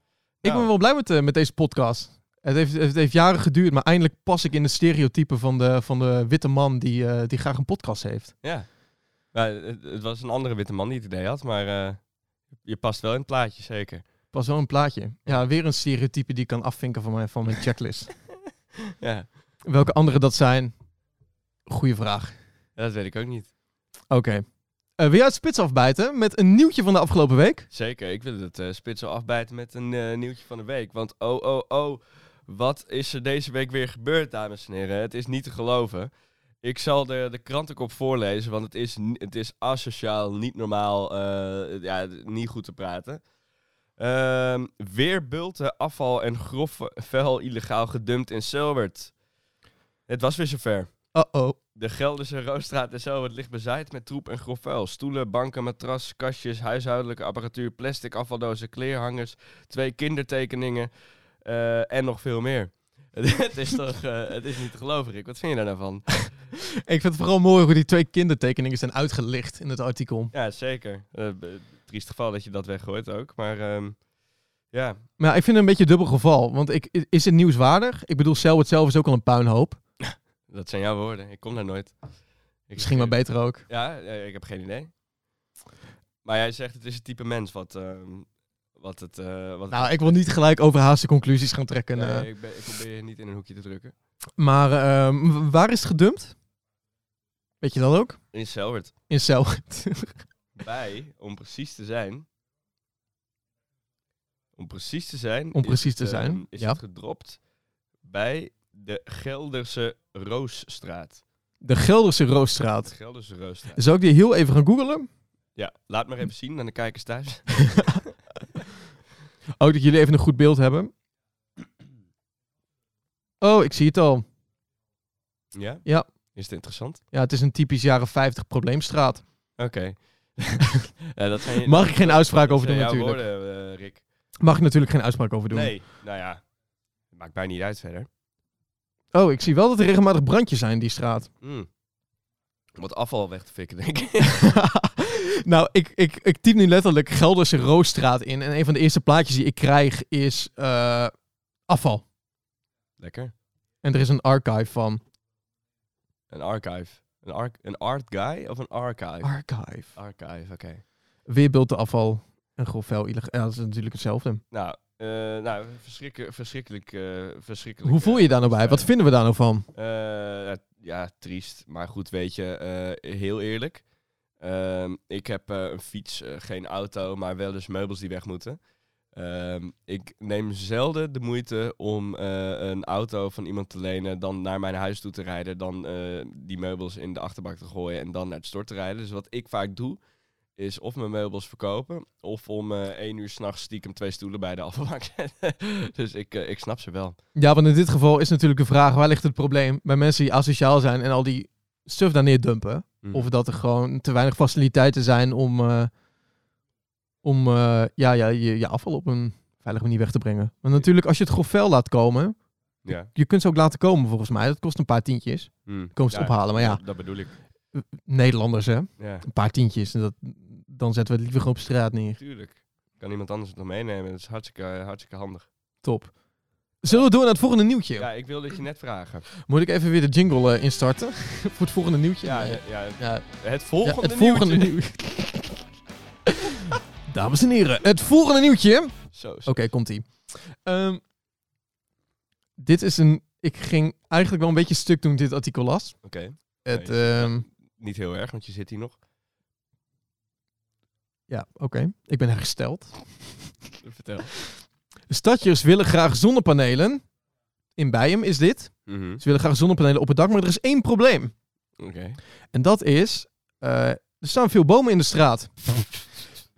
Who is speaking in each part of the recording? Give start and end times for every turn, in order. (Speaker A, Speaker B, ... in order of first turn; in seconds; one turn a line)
Speaker A: 0.4-0.7
Speaker B: 0.4-8.3
Speaker A: 8.4-8.7
Speaker A: 9.3-12.0
Speaker A: 12.6-14.0
Speaker B: 14.3-18.1
Speaker A: 19.0-19.3
Speaker B: 19.6-20.7
Speaker B: 21.7-22.4
Speaker A: 22.8-23.5
Speaker B: 24.1-24.4
Speaker B: 25.0-27.7
Speaker A: 27.7-43.2
Speaker A: 44.0-49.1
Speaker A: 50.1-50.9
Speaker B: 51.1-51.6
Speaker A: 51.8-60.9
Speaker A: 61.4-66.2
Speaker B: 66.5-70.3
Speaker A: 70.3-74.0
Speaker A: 74.7-75.0
Speaker B: 75.2-79.8
Speaker A: 80.0-81.9
Speaker A: 82.7-83.2
Speaker B: 82.8-83.6
Speaker A: 83.7-84.9
Speaker A: 86.2-90.2
Speaker B: 89.7-92.2
Speaker A: 91.9-93.9
Speaker B: 94.4-96.3
Speaker B: 97.6-98.2
Speaker A: 98.3-98.9
Speaker B: 99.1-100.2
Speaker A: 100.5-102.2
Speaker A: 104.6-107.4
Speaker B: 105.5-106.8
Speaker A: 108.0-111.2
Speaker B: 111.6-112.9
Speaker A: 112.8-113.8
Speaker B: 113.7-115.1
Speaker A: 115.5-118.1
Speaker B: 119.6-120.9
Speaker B: 123.4-124.2
Speaker A: 125.5-127.0
Speaker B: 127.1-129.2
Speaker A: 129.6-134.0
Speaker B: 131.6-133.2
Speaker B: 134.4-135.7
Speaker A: 135.5-136.4
Speaker A: 137.1-138.1
Speaker B: 139.1-141.3
Speaker A: 141.4-141.7
Speaker A: 142.8-144.5
Speaker B: 144.2-151.1
Speaker B: 151.7-152.0
Speaker A: 153.0-153.3
Speaker B: 153.8-155.0
Speaker A: 156.3-159.3
Speaker B: 159.2-159.9
Speaker A: 159.9-160.8
Speaker B: 161.3-164.4
Speaker A: 164.5-168.9
Speaker B: 167.8-169.7
Speaker A: 169.7-173.8
Speaker A: 174.4-178.6
Speaker A: 179.1-190.0
Speaker A: 190.6-197.2
Speaker B: 197.3-205.9
Speaker B: 207.2-212.3
Speaker A: 212.8-213.1
Speaker B: 213.1-216.8
Speaker A: 215.7-217.3
Speaker B: 217.8-222.2
Speaker A: 219.0-219.2
Speaker A: 222.2-225.5
Speaker B: 225.8-226.1
Speaker B: 226.8-228.1
Speaker A: 228.0-229.3
Speaker B: 229.4-233.2
Speaker A: 232.2-234.7
Speaker B: 233.8-235.6
Speaker B: 236.2-238.9
Speaker A: 239.1-239.7
Speaker B: 239.5-240.1
Speaker B: 240.6-241.0
Speaker B: 242.6-245.9
Speaker A: 246.0-249.0
Speaker B: 246.6-247.4
Speaker B: 251.3-253.6
Speaker A: 253.8-254.3
Speaker B: 255.1-257.0
Speaker B: 257.8-261.3
Speaker A: 258.9-259.2
Speaker A: 261.8-262.2
Speaker B: 262.5-265.9